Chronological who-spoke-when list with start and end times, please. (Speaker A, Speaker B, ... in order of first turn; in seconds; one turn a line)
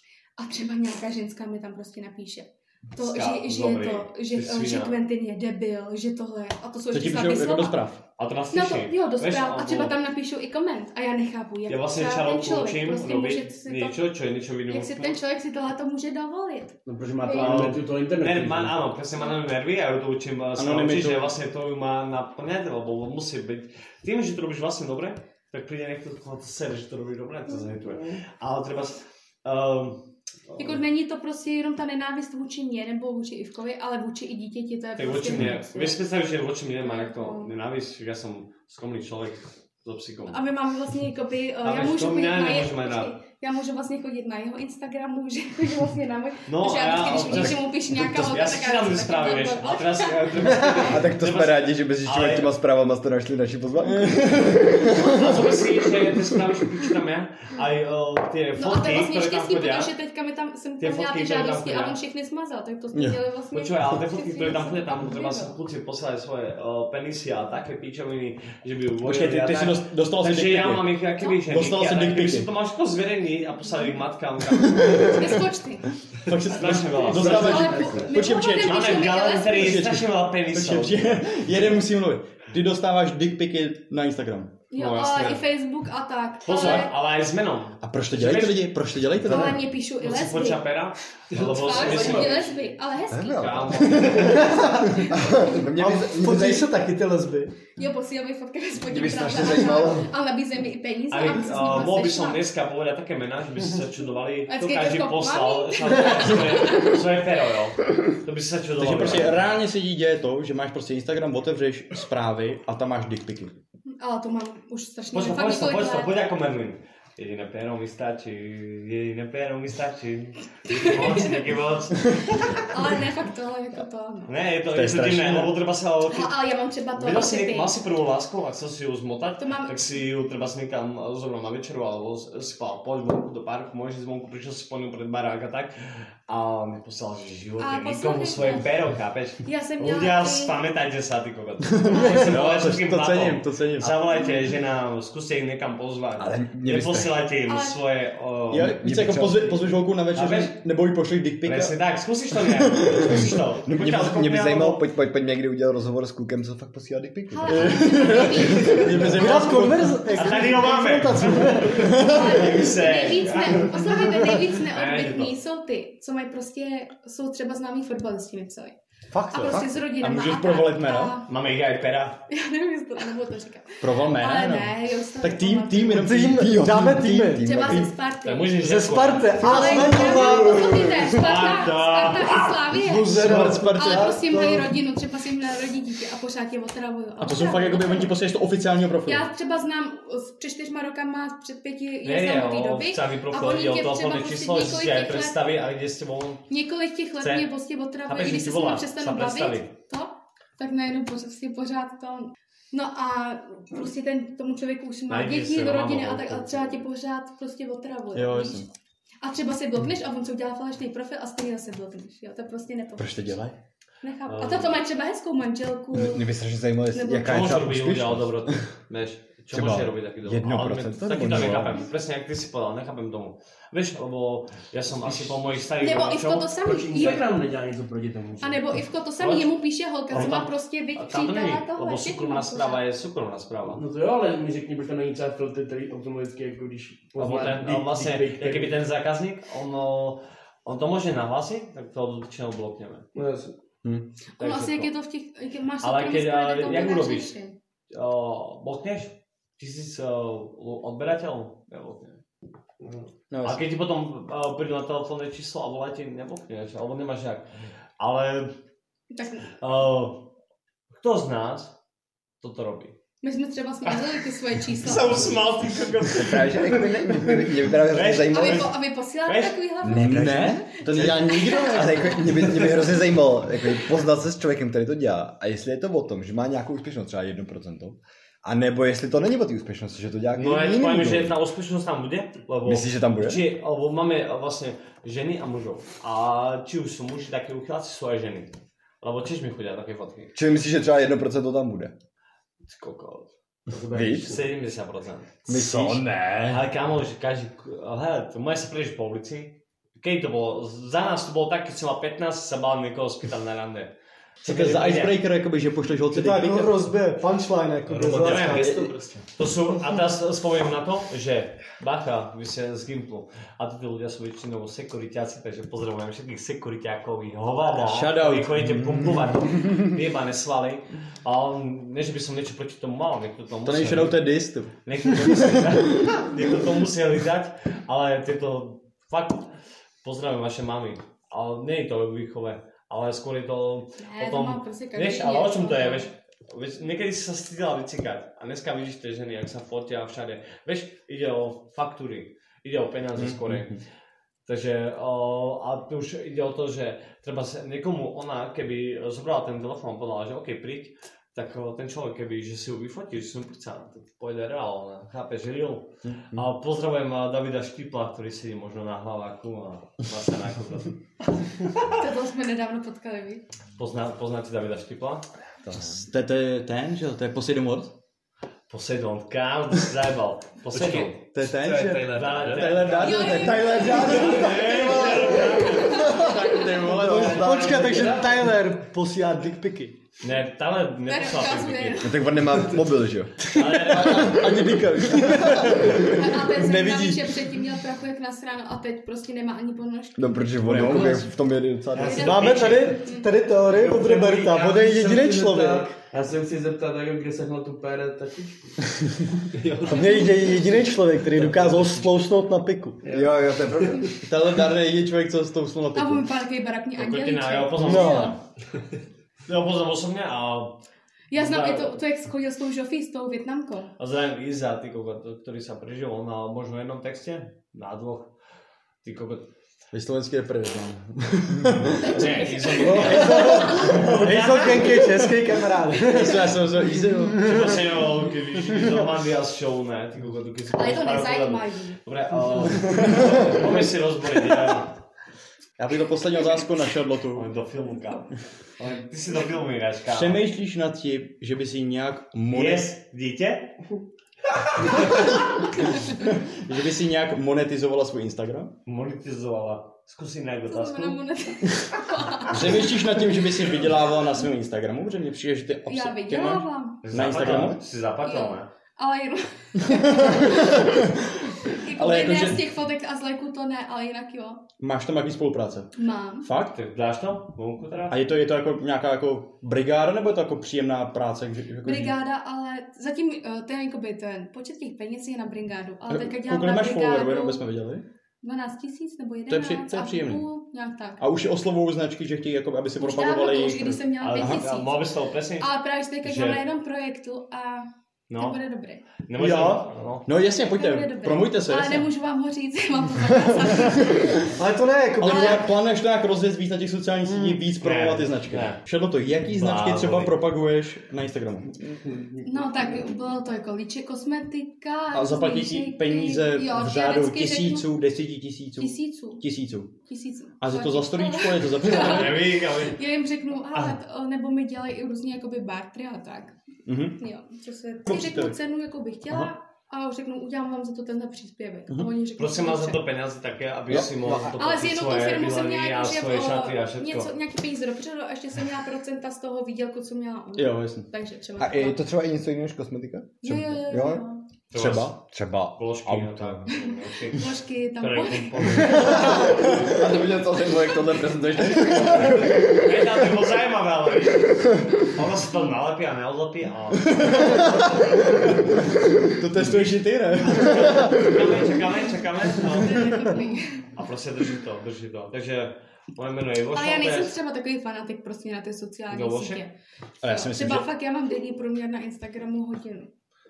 Speaker A: 0.4-7.8
Speaker B: 3.0-5.0
Speaker C: 6.9-8.0
Speaker B: 8.2-9.9
Speaker A: 8.5-14.0
Speaker B: 11.7-15.2
Speaker A: 14.7-17.6
Speaker D: 16.9-18.8
Speaker B: 17.3-30.8
Speaker C: 20.5-21.3
Speaker A: 30.6-36.0
Speaker B: 35.0-40.4
Speaker A: 36.8-37.5
Speaker A: 40.3-51.0
Speaker B: 41.6-43.1
Speaker B: 46.5-52.5
Speaker E: 50.8-55.4
Speaker C: 53.9-54.8
Speaker B: 54.9-59.9
Speaker A: 58.6-65.6
Speaker B: 60.8-62.0
Speaker C: 62.9-63.2
Speaker B: 63.5-75.4
Speaker C: 69.0-72.5
Speaker A: 73.7-73.9
Speaker A: 75.0-75.9
Speaker C: 76.2-84.5
Speaker B: 76.5-81.2
Speaker A: 77.1-79.8
Speaker E: 77.8-78.0
Speaker A: 84.7-86.9
Speaker B: 84.7-85.4
Speaker B: 86.4-88.7
Speaker C: 87.8-89.7
Speaker A: 89.2-90.6
Speaker B: 90.0-92.6
Speaker A: 91.3-95.5
Speaker E: 93.1-96.7
Speaker B: 93.3-94.6
Speaker F: 94.2-95.0
Speaker F: 95.7-97.5
Speaker A: 97.8-102.4
Speaker E: 98.8-100.1
Speaker B: 101.1-109.4
Speaker A: 104.5-107.0
Speaker C: 108.8-113.5
Speaker A: 113.9-116.1
Speaker B: 115.1-122.7
Speaker A: 120.7-124.3
Speaker B: 124.3-126.4
Speaker C: 124.7-125.5
Speaker A: 126.1-127.7
Speaker B: 127.0-148.8
Speaker A: 129.4-129.9
Speaker A: 137.6-138.7
Speaker A: 139.4-140.6
Speaker A: 141.8-142.3
Speaker C: 141.9-144.0
Speaker A: 144.1-144.5
Speaker E: 146.2-147.2
Speaker A: 147.5-147.8
Speaker C: 148.5-151.8
Speaker E: 148.5-149.6
Speaker B: 150.1-150.6
Speaker B: 151.4-154.8
Speaker C: 152.8-153.2
Speaker E: 153.7-158.8
Speaker A: 157.3-159.3
Speaker C: 157.5-160.0
Speaker F: 159.0-162.0
Speaker B: 160.1-165.3
Speaker A: 161.8-168.8
Speaker C: 161.9-162.2
Speaker F: 169.1-169.6
Speaker A: 169.3-171.3
Speaker C: 170.0-171.2
Speaker B: 171.3-172.2
Speaker A: 172.3-176.0
Speaker C: 173.8-177.6
Speaker F: 175.9-177.6
Speaker E: 176.3-178.0
Speaker A: 177.4-178.6
Speaker B: 178.2-180.2
Speaker F: 178.6-180.9
Speaker A: 179.4-188.1
Speaker B: 181.0-182.7
Speaker F: 182.8-184.7
Speaker C: 183.1-184.4
Speaker C: 187.2-189.3
Speaker A: 189.0-195.4
Speaker B: 192.0-196.4
Speaker A: 196.5-208.7
Speaker B: 197.2-197.5
Speaker B: 198.0-199.7
Speaker B: 205.1-206.8
Speaker C: 208.1-208.7
Speaker A: 209.2-213.4
Speaker C: 213.0-213.5
Speaker A: 214.0-216.4
Speaker B: 214.2-214.8
Speaker E: 215.9-218.6
Speaker A: 216.9-217.3
Speaker B: 217.2-227.2
Speaker E: 219.5-221.9
Speaker A: 225.8-227.3
Speaker D: 226.6-228.7
Speaker A: 228.4-232.8
Speaker B: 229.2-229.5
Speaker B: 230.1-233.8
Speaker D: 233.7-238.8
Speaker B: 237.2-243.1
Speaker D: 243.1-243.5
Speaker B: 244.4-244.9
Speaker A: 244.4-247.6
Speaker B: 245.8-247.3
Speaker B: 247.9-252.2
Speaker C: 253.3-253.6
Speaker B: 253.4-258.5
Speaker A: 259.1-259.5
Speaker B: 259.6-260.3
Speaker B: 260.9-261.7
Speaker B: 262.4-262.9
Speaker A: 263.2-265.3
Speaker B: 263.9-267.2
Speaker E: 266.1-268.8
Speaker B: 267.8-269.6
Speaker A: 268.3-272.2
Speaker E: 269.8-281.4
Speaker C: 269.8-272.3
Speaker B: 280.4-290.4
Speaker E: 282.6-283.5
Speaker E: 290.3-291.9
Speaker B: 292.7-305.2
Speaker E: 293.9-294.4
Speaker E: 295.5-296.6
Speaker C: 295.5-296.6
Speaker C: 304.4-306.9
Speaker F: 306.1-309.0
Speaker B: 307.9-324.3
Speaker C: 308.3-308.9
Speaker C: 317.8-319.3
Speaker C: 323.6-325.7
Speaker B: 324.8-329.5
Speaker B: 330.0-343.8
Speaker A: 334.0-336.1
Speaker C: 343.1-343.6
Speaker B: 344.4-361.0
Speaker E: 356.1-356.4
Speaker A: 361.9-363.4
Speaker B: 363.8-365.2
Speaker E: 365.6-366.0
Speaker C: 365.7-367.9
Speaker B: 368.7-371.2
Speaker C: 370.7-377.5
Speaker D: 370.8-373.2
Speaker B: 372.0-376.7
Speaker A: 373.0-376.7
Speaker E: 373.3-375.2
Speaker E: 376.8-378.2
Speaker F: 377.1-379.9
Speaker D: 377.2-378.4
Speaker B: 380.2-382.2
Speaker A: 381.0-382.2
Speaker E: 381.9-383.4
Speaker F: 383.5-385.7
Speaker B: 383.5-384.6
Speaker C: 383.6-387.4
Speaker E: 385.5-385.9
Speaker A: 386.1-390.3
Speaker E: 390.2-392.4
Speaker C: 390.6-391.3
Speaker D: 391.9-392.8
Speaker A: 392.0-393.3
Speaker F: 392.1-395.9
Speaker B: 392.3-392.9
Speaker D: 393.7-398.8
Speaker D: 399.5-400.3
Speaker F: 399.9-403.0
Speaker A: 400.0-400.6
Speaker D: 401.3-402.0
Speaker D: 403.0-404.1
Speaker E: 403.1-404.1
Speaker C: 404.2-406.3
Speaker A: 405.9-408.4
Speaker B: 407.0-408.4
Speaker F: 407.8-408.4
Speaker B: 409.4-410.8
Speaker A: 411.3-413.9
Speaker B: 411.3-412.0
Speaker B: 414.0-418.3
Speaker B: 419.0-419.5
Speaker C: 419.9-424.2
Speaker B: 422.0-425.2
Speaker F: 422.9-426.6
Speaker C: 426.0-427.8
Speaker F: 427.4-427.7
Speaker B: 427.4-435.0
Speaker A: 430.7-432.0
Speaker C: 433.0-433.3
Speaker C: 435.8-437.5
Speaker B: 437.3-440.4
Speaker C: 440.1-442.9
Speaker B: 442.5-443.8
Speaker B: 444.8-445.3
Speaker C: 446.0-448.7
Speaker B: 448.9-451.2
Speaker A: 450.7-452.9
Speaker C: 452.5-457.8
Speaker A: 455.9-457.0
Speaker B: 457.0-458.7
Speaker A: 458.2-464.6
Speaker C: 459.8-461.1
Speaker C: 461.9-462.6
Speaker C: 464.8-466.8
Speaker A: 465.9-466.5
Speaker B: 466.7-468.2
Speaker C: 468.1-472.1
Speaker A: 471.8-477.6
Speaker C: 476.1-478.0
Speaker A: 478.4-481.2
Speaker C: 479.5-480.4
Speaker C: 481.2-484.6
Speaker A: 483.0-489.1
Speaker B: 484.2-485.7
Speaker B: 486.2-486.6
Speaker B: 488.3-488.6
Speaker B: 489.2-490.3
Speaker F: 489.4-489.8
Speaker C: 489.4-492.1
Speaker A: 490.4-494.5
Speaker C: 493.9-494.3
Speaker F: 494.5-495.6
Speaker C: 495.2-501.7
Speaker A: 495.2-495.7
Speaker F: 497.3-497.6
Speaker B: 497.8-498.8
Speaker B: 499.5-500.3
Speaker A: 502.4-507.9
Speaker C: 505.1-509.9
Speaker A: 508.8-509.4
Speaker A: 510.1-516.5
Speaker C: 510.6-512.4
Speaker B: 511.8-513.0
Speaker C: 516.9-517.2
Speaker A: 517.2-523.0
Speaker C: 518.0-518.5
Speaker B: 522.4-527.3
Speaker C: 523.9-524.5
Speaker E: 523.9-524.6
Speaker A: 524.5-532.0
Speaker C: 530.5-531.1
Speaker E: 531.6-536.7
Speaker A: 533.4-534.4
Speaker B: 534.7-535.2
Speaker B: 535.7-539.8
Speaker A: 536.7-539.7
Speaker E: 539.3-542.9
Speaker C: 541.6-542.6
Speaker B: 541.7-547.8
Speaker C: 549.4-551.3
Speaker B: 549.6-557.4
Speaker A: 552.8-553.9
Speaker A: 556.7-563.1
Speaker B: 559.1-559.6
Speaker C: 560.2-560.9